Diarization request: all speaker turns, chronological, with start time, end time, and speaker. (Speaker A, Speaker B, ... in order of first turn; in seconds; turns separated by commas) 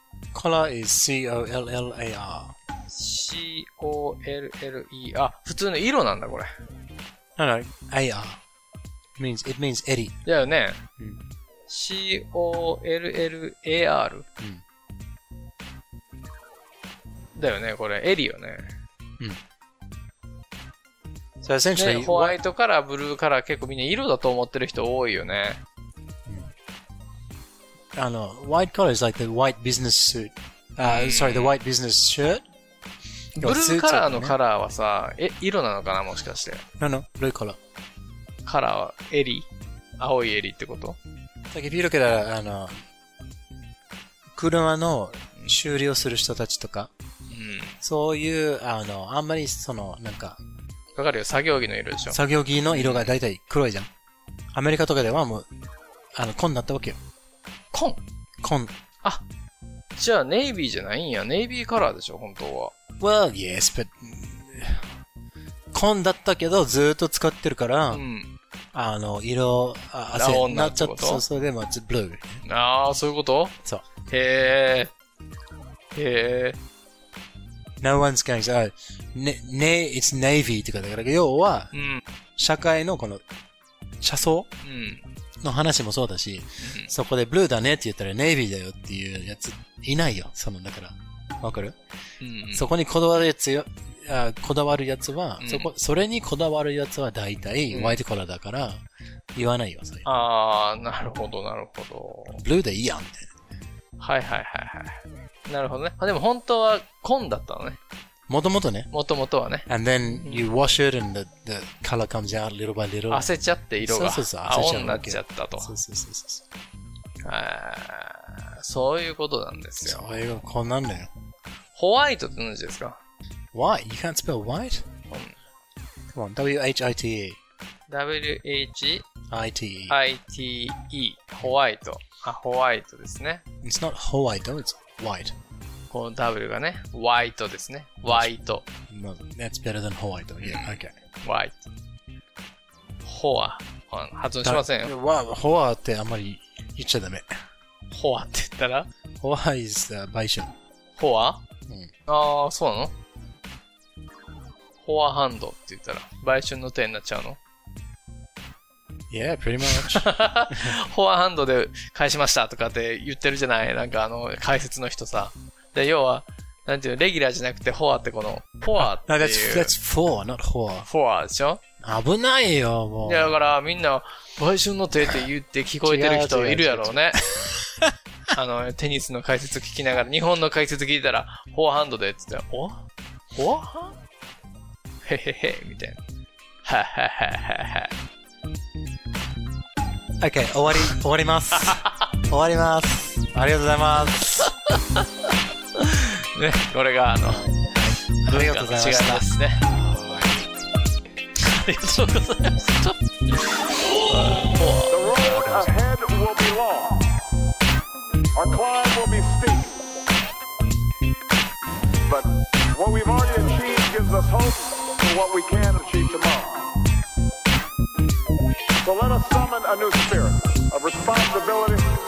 Speaker A: 0.3-2.5, Speaker B: 2.9-6.5, Speaker A: 7.4-8.4, Speaker A: 9.2-10.2, Speaker B: 10.2-10.8, Speaker B: 11.7-14.2, Speaker B: 17.3-18.8, Speaker A: 21.4-22.4, Speaker B: 21.7-25.6, Speaker A: 27.9-32.4, Speaker B: 30.8-31.6, Speaker B: 33.4-36.6, Speaker A: 33.4-34.4, Speaker A: 36.8-37.6, Speaker B: 38.4-39.5, Speaker B: 40.0-41.0, Speaker A: 41.5-42.8, Speaker A: 44.3-46.9, Speaker B: 47.3-47.8, Speaker A: 47.8-50.4, Speaker B: 50.9-53.1, Speaker A: 52.1-53.9, Speaker A: 54.5-55.5, Speaker A: 56.1-57.0, Speaker B: 57.7-58.0, Speaker A: 58.4-58.7, Speaker B: 59.9-62.7, Speaker A: 63.0-64.9, Speaker A: 65.7-68.0, Speaker B: 67.9-68.3, Speaker A: 68.7-72.4, Speaker B: 70.1-71.2, Speaker B: 72.4-74.9, Speaker B: 75.9-76.6, Speaker A: 77.8-81.7, Speaker B: 81.7-82.0, Speaker A: 82.4-83.2, Speaker A: 84.0-84.5, Speaker B: 84.6-85.0, Speaker A: 85.4-91.8, Speaker B: 86.6-86.9, Speaker B: 92.2-92.7, Speaker A: 92.5-100.1, Speaker B: 95.4-95.7, Speaker B: 97.7-98.0, Speaker B: 100.0-102.4, Speaker A: 102.3-103.3, Speaker B: 104.0-107.8, Speaker A: 108.3-108.9, Speaker B: 108.9-110.5, Speaker A: 109.7-116.4, Speaker B: 113.1-115.7, Speaker B: 117.2-120.3, Speaker A: 119.8-121.1, Speaker B: 121.7-123.0, Speaker A: 123.5-124.9, Speaker A: 126.1-127.4, Speaker B: 127.9-129.0, Speaker A: 129.3-129.9, Speaker B: 129.9-133.4, Speaker A: 133.6-135.3, Speaker B: 135.9-138.6, Speaker A: 138.1-138.3, Speaker A: 138.9-140.9, Speaker B: 140.4-141.6, Speaker B: 143.0-144.9, Speaker A: 144.4-147.3, Speaker B: 147.9-148.9, Speaker A: 149.2-150.5, Speaker B: 150.9-151.4, Speaker B: 152.1-152.9, Speaker B: 154.8-157.4, Speaker A: 159.1-160.8, Speaker B: 159.6-169.7, Speaker A: 168.8-170.9, Speaker B: 170.8-171.6, Speaker A: 171.8-173.3, Speaker B: 173.0-177.2, Speaker A: 175.8-177.9, Speaker B: 178.3-183.9, Speaker B: 185.0-186.0, Speaker B: 186.6-187.9, Speaker A: 190.2-194.4, Speaker B: 194.3-195.1, Speaker B: 195.8-199.7, Speaker A: 197.2-200.5, Speaker B: 201.4-205.7, Speaker C: 204.9-207.1, Speaker A: 205.1-205.6, Speaker C: 208.3-209.8, Speaker C: 212.0-216.7, Speaker C: 218.8-221.9